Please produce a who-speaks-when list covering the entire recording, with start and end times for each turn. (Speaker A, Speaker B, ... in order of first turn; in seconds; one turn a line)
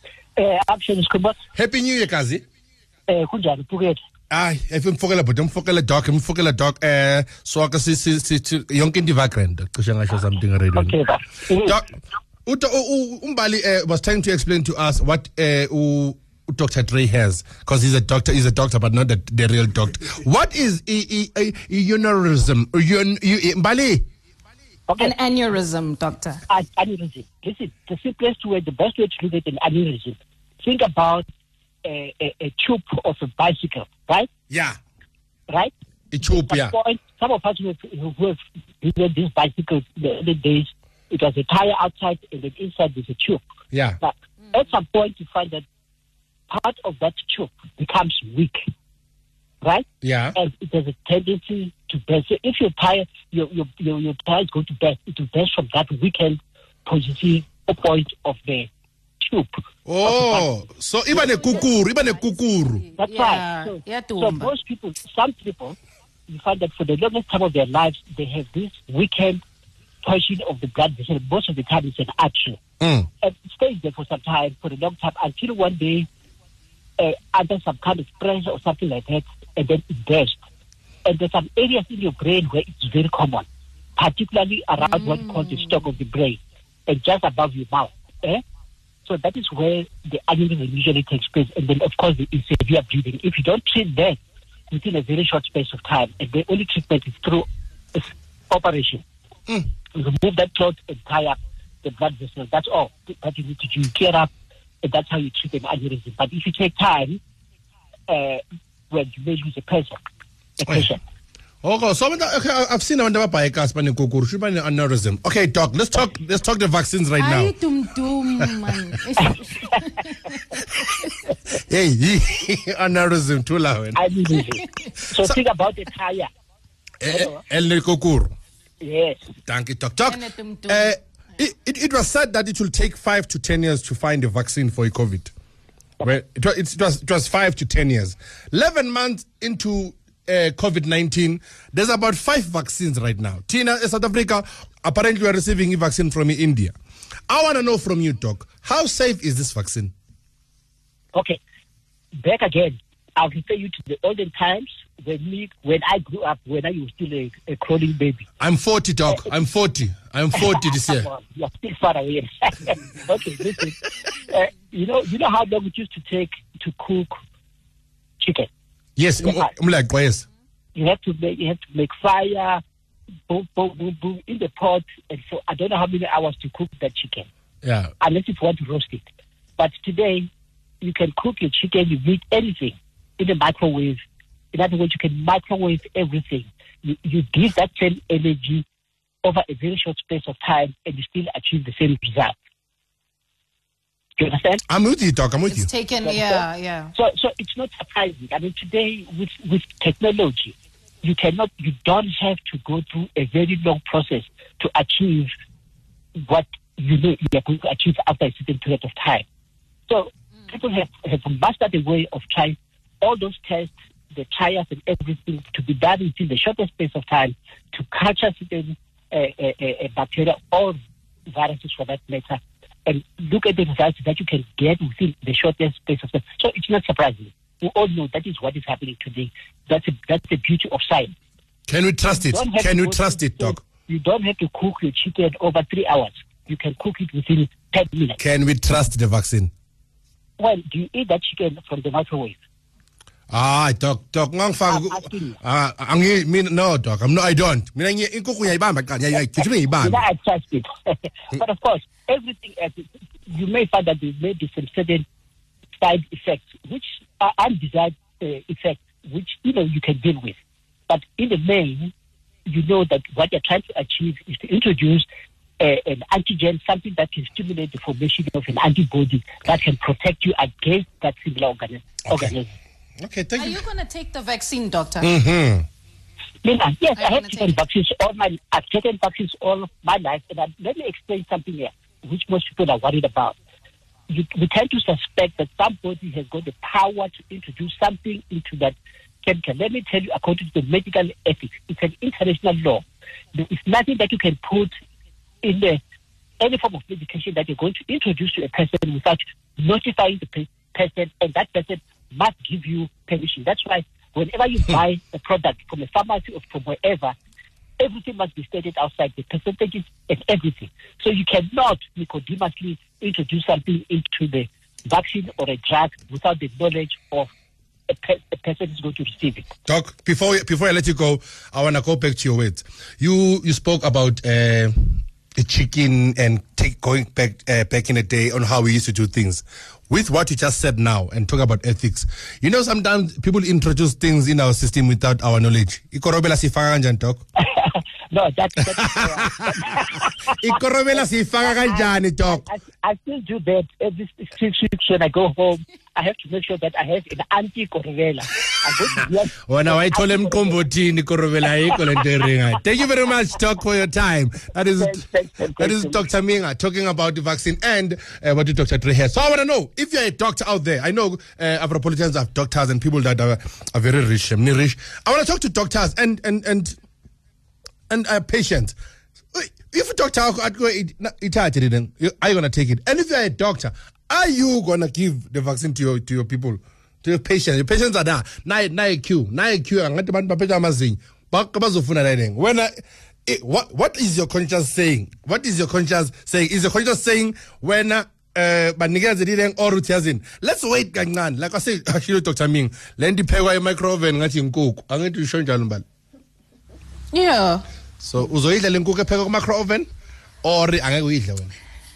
Speaker A: 0.4-1.4
Speaker B: 1.6-2.4
Speaker A: 3.1-4.0
Speaker B: 4.3-10.9
Speaker A: 10.7-11.8
Speaker B: 11.6-11.9
Speaker B: 12.5-24.0
Speaker A: 24.9-25.1
Speaker C: 25.0-26.4
Speaker A: 26.5-31.2
Speaker A: 31.8-34.3
Speaker B: 34.5-34.8
Speaker B: 36.1-36.7
Speaker A: 36.2-43.4
Speaker B: 43.7-44.0
Speaker A: 44.0-45.6
Speaker A: 46.5-48.6
Speaker A: 49.6-58.7
Speaker B: 50.0-50.3
Speaker A: 59.2-60.5
Speaker B: 59.9-62.9
Speaker A: 63.0-65.8
Speaker C: 63.0-64.5
Speaker A: 66.3-69.4
Speaker A: 70.0-72.6
Speaker B: 72.8-73.1
Speaker A: 73.2-76.1
Speaker A: 77.0-80.4
Speaker A: 81.0-88.4
Speaker C: 85.0-85.5
Speaker A: 89.0-94.2
Speaker A: 94.7-99.0
Speaker A: 99.9-104.3
Speaker A: 104.8-107.2
Speaker A: 108.1-110.0
Speaker A: 110.6-111.0
Speaker B: 111.6-117.5
Speaker C: 117.2-120.4
Speaker B: 120.6-120.9
Speaker B: 121.5-124.0
Speaker A: 124.0-126.3
Speaker B: 127.0-128.3
Speaker A: 127.1-127.4
Speaker A: 128.8-129.3
Speaker B: 129.5-135.3
Speaker C: 130.1-130.9
Speaker B: 136.0-146.7
Speaker B: 147.3-149.9
Speaker A: 151.1-151.4
Speaker A: 152.2-158.2
Speaker B: 158.4-161.1
Speaker A: 160.3-167.2
Speaker A: 168.2-168.5
Speaker B: 169.0-170.2
Speaker A: 169.2-169.5
Speaker A: 170.8-172.6
Speaker A: 173.3-177.3
Speaker B: 177.6-177.9
Speaker A: 178.0-179.0
Speaker A: 179.6-180.3
Speaker A: 180.8-184.0
Speaker A: 184.5-188.6
Speaker A: 189.2-192.3
Speaker A: 194.2-194.6
Speaker B: 194.7-195.7
Speaker C: 195.5-196.9
Speaker A: 196.0-196.4
Speaker A: 196.9-205.3
Speaker A: 206.2-209.2
Speaker A: 209.9-220.8
Speaker A: 221.3-231.1
Speaker B: 231.7-233.6
Speaker A: 232.3-238.2
Speaker B: 238.2-239.5
Speaker A: 240.4-242.4
Speaker B: 243.3-250.0
Speaker A: 244.7-245.4
Speaker A: 249.3-255.1
Speaker A: 255.8-260.4
Speaker A: 260.9-261.9
Speaker A: 262.5-265.1
Speaker A: 265.6-272.5
Speaker B: 272.1-272.3
Speaker B: 273.0-273.6
Speaker C: 273.4-275.1
Speaker B: 275.0-275.6
Speaker A: 276.4-283.4
Speaker C: 277.0-277.6
Speaker A: 284.1-292.8
Speaker A: 293.3-294.7
Speaker A: 295.4-295.8
Speaker A: 296.4-307.1
Speaker A: 307.8-317.3
Speaker A: 317.9-319.5
Speaker B: 319.6-337.2
Speaker A: 337.4-350.6
Speaker B: 338.9-342.4
Speaker B: 349.4-355.0
Speaker A: 354.8-356.0
Speaker B: 355.6-366.8
Speaker B: 367.9-368.8
Speaker B: 369.3-382.7
Speaker B: 383.2-395.8
Speaker C: 397.1-397.6
Speaker B: 398.0-399.9
Speaker B: 400.4-401.5